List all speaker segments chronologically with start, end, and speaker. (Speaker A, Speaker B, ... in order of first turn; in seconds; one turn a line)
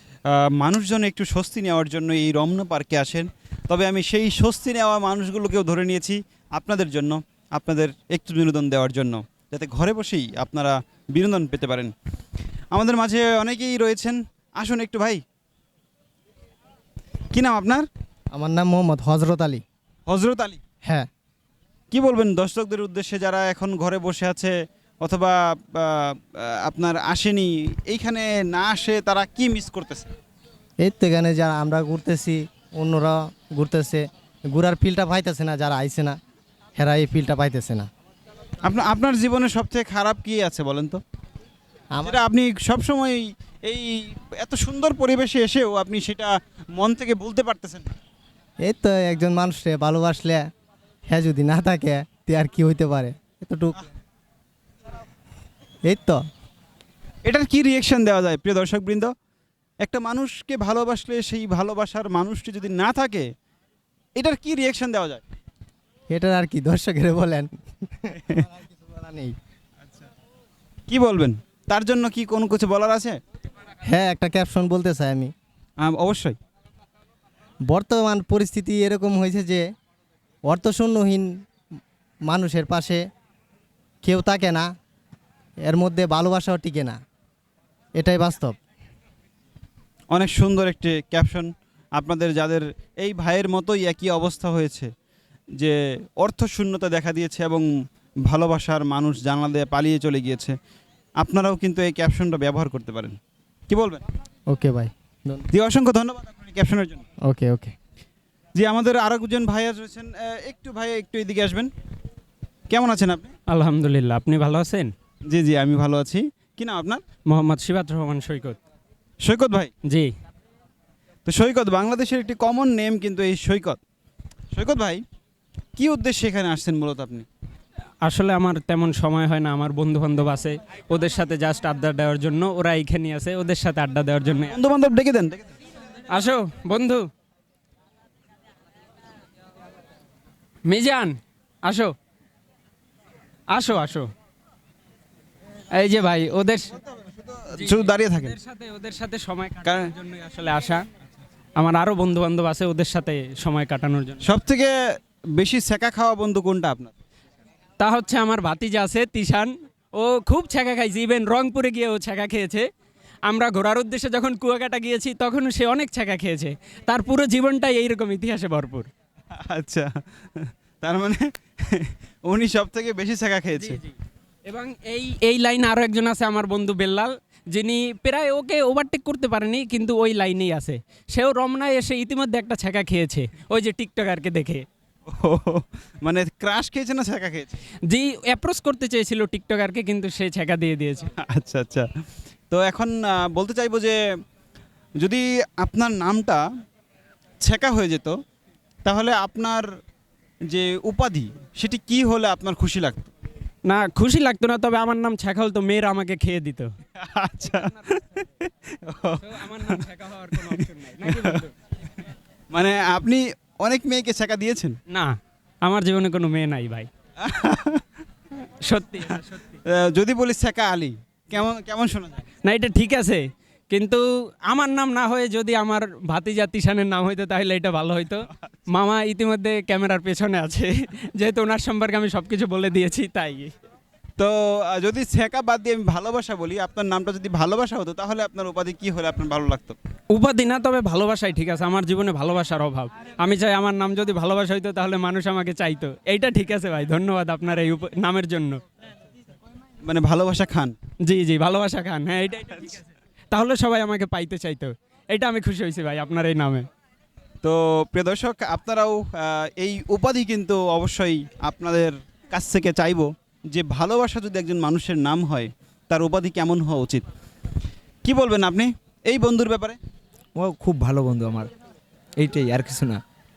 Speaker A: 0.3-11.9
Speaker A: 12.7-15.2
Speaker A: 17.3-17.9
Speaker B: 18.3-19.6
Speaker A: 20.1-20.6
Speaker A: 21.9-30.1
Speaker B: 30.8-36.2
Speaker B: 36.8-37.9
Speaker A: 38.6-41.0
Speaker A: 42.0-47.9
Speaker B: 48.7-50.4
Speaker B: 51.1-53.9
Speaker B: 55.9-56.2
Speaker A: 57.2-59.1
Speaker A: 59.8-63.3
Speaker A: 64.2-65.2
Speaker B: 66.1-69.3
Speaker A: 70.9-73.2
Speaker B: 73.9-75.3
Speaker A: 75.8-76.4
Speaker B: 77.7-79.7
Speaker B: 80.5-81.3
Speaker B: 82.3-83.0
Speaker B: 84.0-84.7
Speaker B: 85.7-87.0
Speaker B: 88.0-88.6
Speaker A: 90.1-94.9
Speaker A: 95.6-97.7
Speaker A: 98.3-100.6
Speaker A: 101.2-103.2
Speaker A: 103.7-104.0
Speaker B: 104.5-105.5
Speaker A: 105.5-107.0
Speaker B: 107.3-107.7
Speaker A: 108.5-111.7
Speaker A: 112.7-113.3
Speaker C: 113.5-114.9
Speaker A: 115.3-117.0
Speaker C: 117.3-118.6
Speaker A: 119.2-119.7
Speaker A: 121.3-123.8
Speaker A: 124.5-125.0
Speaker A: 125.8-127.3
Speaker C: 128.1-134.6
Speaker A: 134.5-135.5
Speaker C: 136.1-137.0
Speaker C: 140.7-141.9
Speaker C: 143.5-144.1
Speaker C: 145.7-146.7
Speaker A: 147.0-148.3
Speaker C: 147.6-150.8
Speaker A: 149.7-149.9
Speaker C: 151.6-154.2
Speaker A: 154.2-154.7
Speaker A: 155.4-156.9
Speaker C: 157.8-162.7
Speaker C: 163.3-168.9
Speaker A: 169.4-173.8
Speaker C: 173.6-173.9
Speaker C: 174.5-184.7
Speaker A: 185.1-187.6
Speaker C: 187.9-191.1
Speaker A: 191.2-191.9
Speaker A: 192.5-194.0
Speaker A: 195.0-196.4
Speaker A: 197.4-198.2
Speaker A: 198.8-199.7
Speaker A: 200.5-203.1
Speaker C: 203.7-206.7
Speaker A: 207.0-209.8
Speaker C: 207.4-208.0
Speaker C: 209.2-211.5
Speaker A: 210.4-211.4
Speaker A: 212.5-214.8
Speaker C: 214.9-216.9
Speaker A: 217.2-217.8
Speaker C: 218.6-219.6
Speaker A: 219.7-222.3
Speaker C: 222.4-233.5
Speaker A: 234.2-239.8
Speaker C: 240.1-248.6
Speaker A: 249.8-250.8
Speaker C: 251.1-252.8
Speaker C: 253.3-256.6
Speaker A: 257.4-267.1
Speaker A: 268.0-269.8
Speaker D: 270.4-271.5
Speaker D: 272.2-273.0